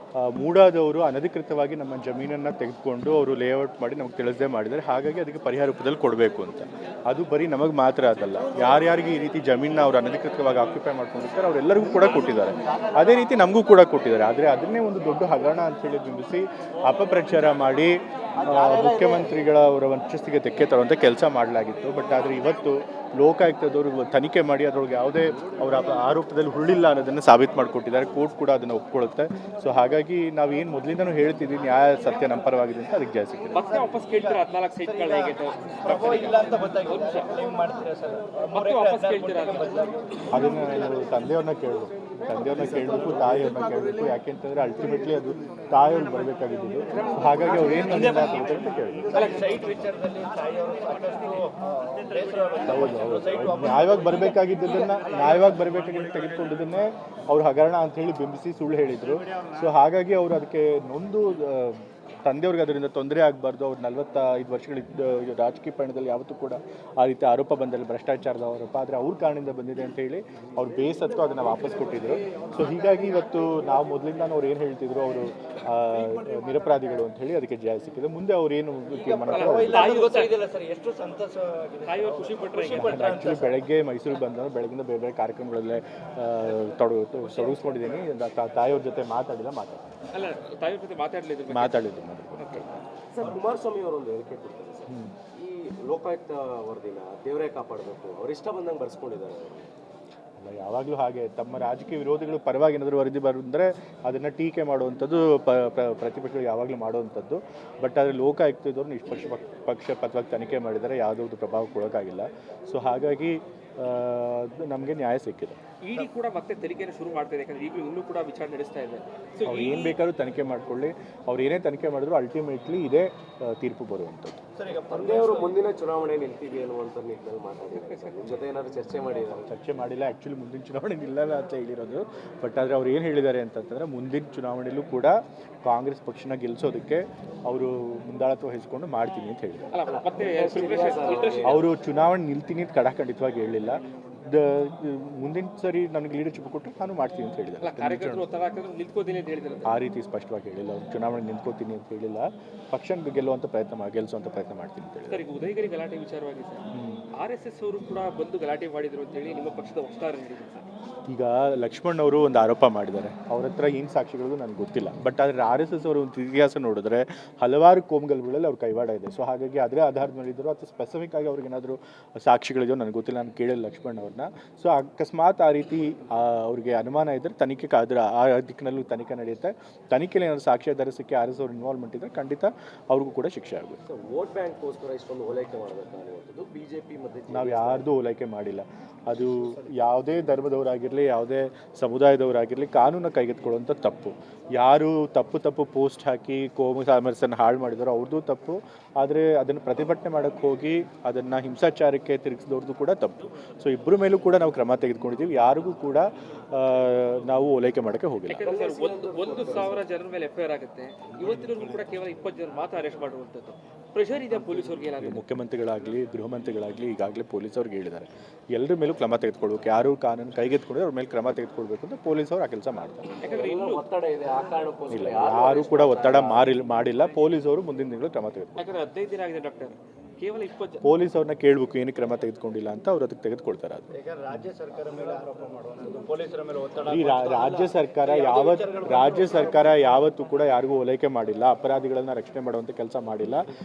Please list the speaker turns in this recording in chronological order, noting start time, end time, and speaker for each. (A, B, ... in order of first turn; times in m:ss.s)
0:00.2-0:33.6 A
0:33.5-0:37.3 B
0:33.7-0:40.8 C
0:38.5-0:39.9 B
0:40.3-0:49.3 A
0:47.0-0:48.2 B
0:47.7-0:48.3 C
0:49.1-0:54.9 C
0:49.1-0:49.6 B
0:52.7-1:19.9 A
1:18.9-1:23.6 C
1:19.3-1:20.4 B
1:21.8-1:23.1 B
1:22.7-1:29.8 A
1:27.2-1:28.0 C
1:30.1-1:32.6 B
1:31.5-1:33.4 A
1:33.1-1:39.7 D
1:34.9-1:35.2 A
1:40.4-1:55.6 A
1:55.8-2:00.0 B
1:59.4-2:04.4 A
2:04.6-2:05.6 C
2:04.9-2:09.5 D
2:09.5-2:19.8 A
2:19.7-2:21.6 B
2:19.9-2:20.8 C
2:20.2-2:21.6 D
2:21.4-2:28.2 A
2:27.6-2:29.8 B
2:29.6-2:35.2 A
2:35.1-2:36.6 B
2:36.7-2:37.0 A
2:37.2-2:40.6 B
2:41.1-3:03.8 A
3:03.9-3:07.9 D
3:07.3-3:28.4 A
3:28.3-3:35.2 B
3:28.4-3:29.8 D
3:35.0-3:43.1 A
3:43.2-3:43.8 B
3:43.2-3:46.5 D
3:44.9-3:48.6 A
3:48.6-3:50.8 B
3:50.8-3:54.4 A
3:53.9-3:59.8 C
3:56.9-4:03.5 A